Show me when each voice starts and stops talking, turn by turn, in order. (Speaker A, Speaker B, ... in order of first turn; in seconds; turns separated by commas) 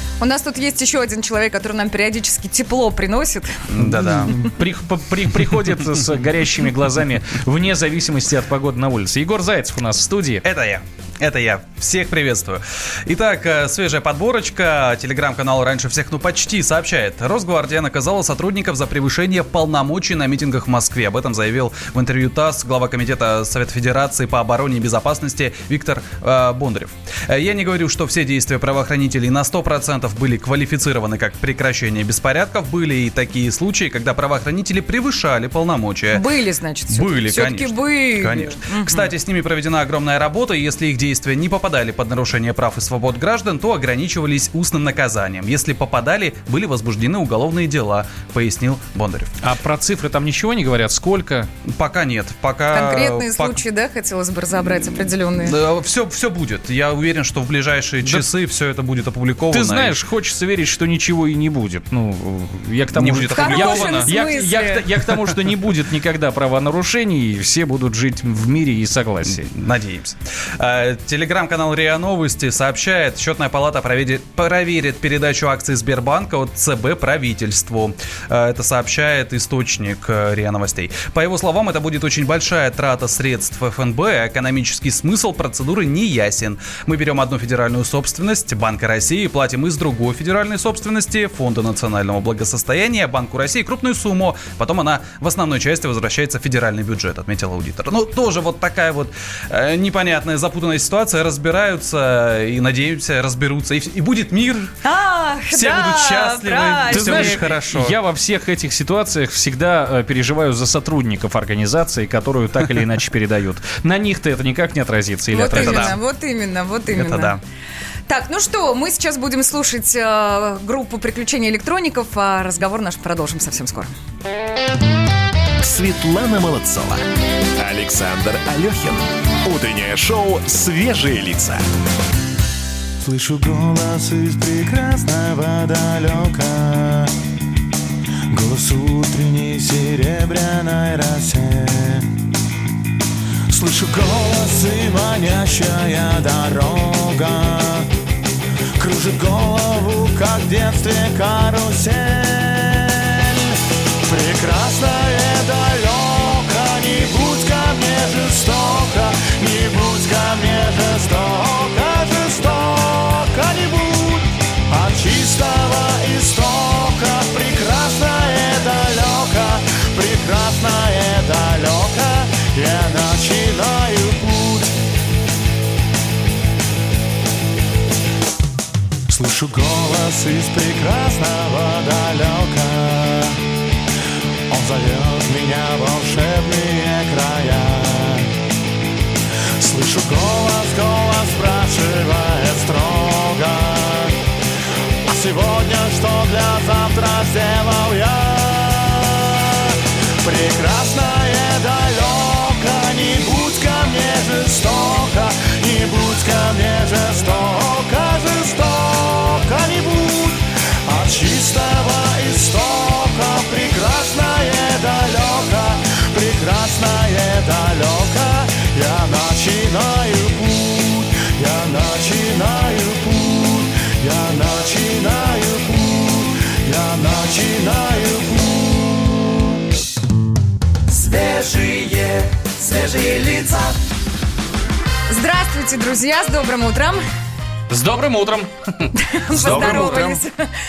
Speaker A: 0.2-3.6, Speaker B: 3.7-4.4, Speaker C: 3.8-10.4, Speaker B: 10.4-36.2, Speaker A: 36.1-39.1, Speaker B: 36.9-49.3, Speaker C: 49.4-51.5, Speaker B: 51.7-53.6, Speaker A: 52.7-55.6, Speaker B: 55.4-60.0, Speaker C: 59.5-69.5, Speaker B: 62.9-64.2, Speaker A: 63.3-64.8, Speaker B: 69.3-104.7, Speaker A: 104.8-107.4, Speaker B: 105.5-108.0, Speaker C: 106.9-116.0, Speaker A: 115.3-117.4, Speaker B: 115.4-116.0, Speaker B: 116.9-117.4, Speaker A: 118.1-123.9, Speaker D: 125.6-127.0, Speaker D: 127.6-131.6, Speaker E: 133.0-137.1, Speaker E: 138.3-142.1, Speaker E: 143.5-147.9, Speaker E: 148.8-153.5, Speaker E: 154.0-174.7, Speaker E: 179.1-183.4, Speaker E: 184.5-188.3, Speaker E: 189.6-194.2, Speaker E: 195.1-229.3, Speaker A: 235.1-237.0, Speaker C: 237.7-240.0, Speaker A: 239.0-240.3, Speaker E: 239.3-240.2